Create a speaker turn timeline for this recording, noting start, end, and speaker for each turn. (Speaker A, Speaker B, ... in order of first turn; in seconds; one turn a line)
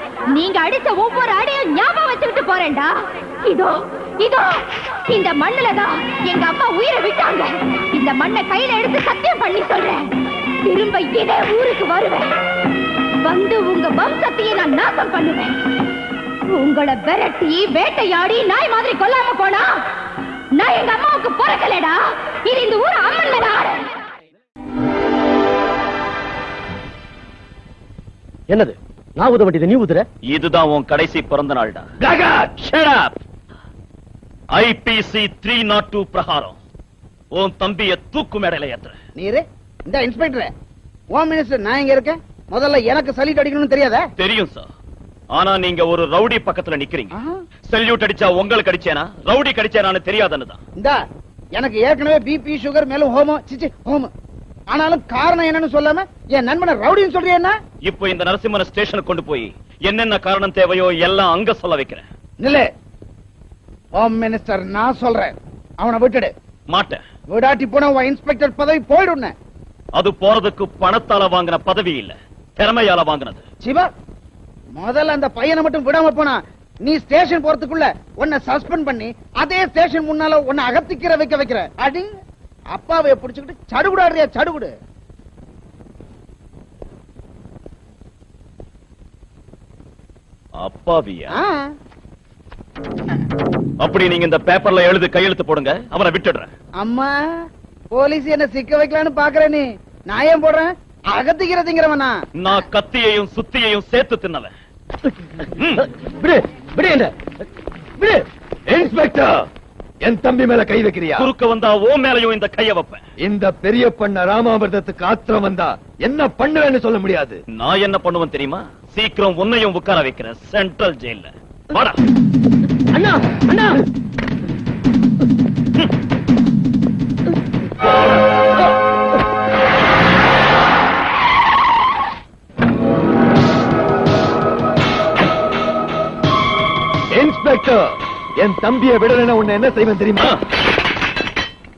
Speaker A: 0.3-10.1
Speaker A: 10.6-12.3
Speaker A: 13.2-15.6
Speaker A: 16.5-19.8
Speaker A: 20.6-23.9
Speaker B: 28.5-30.1
Speaker C: 30.3-31.9
Speaker D: 32.0-32.5
Speaker C: 32.6-33.2
Speaker C: 34.5-36.6
Speaker C: 37.3-39.0
Speaker E: 39.2-40.5
Speaker E: 41.1-44.0
Speaker C: 44.2-44.7
Speaker C: 45.3-47.1
Speaker C: 47.7-50.6
Speaker E: 51.6-54.1
Speaker E: 54.7-57.5
Speaker C: 57.8-62.0
Speaker E: 62.4-62.7
Speaker E: 64.0-66.3
Speaker C: 66.7-67.0
Speaker E: 67.3-69.3
Speaker C: 70.0-73.4
Speaker E: 73.6-73.9
Speaker E: 74.8-82.1
Speaker E: 82.7-84.7
Speaker C: 90.6-91.3
Speaker E: 91.3-91.6
Speaker C: 93.8-96.5
Speaker E: 96.8-97.1
Speaker E: 97.9-102.1
Speaker C: 102.4-104.5
Speaker C: 105.6-105.9
Speaker B: 105.8-107.1
Speaker B: 108.0-108.3
Speaker D: 108.7-109.5
Speaker D: 110.0-111.3
Speaker C: 111.2-113.0
Speaker D: 113.2-117.4
Speaker C: 117.6-122.0
Speaker B: 122.9-123.8
Speaker D: 137.1-140.3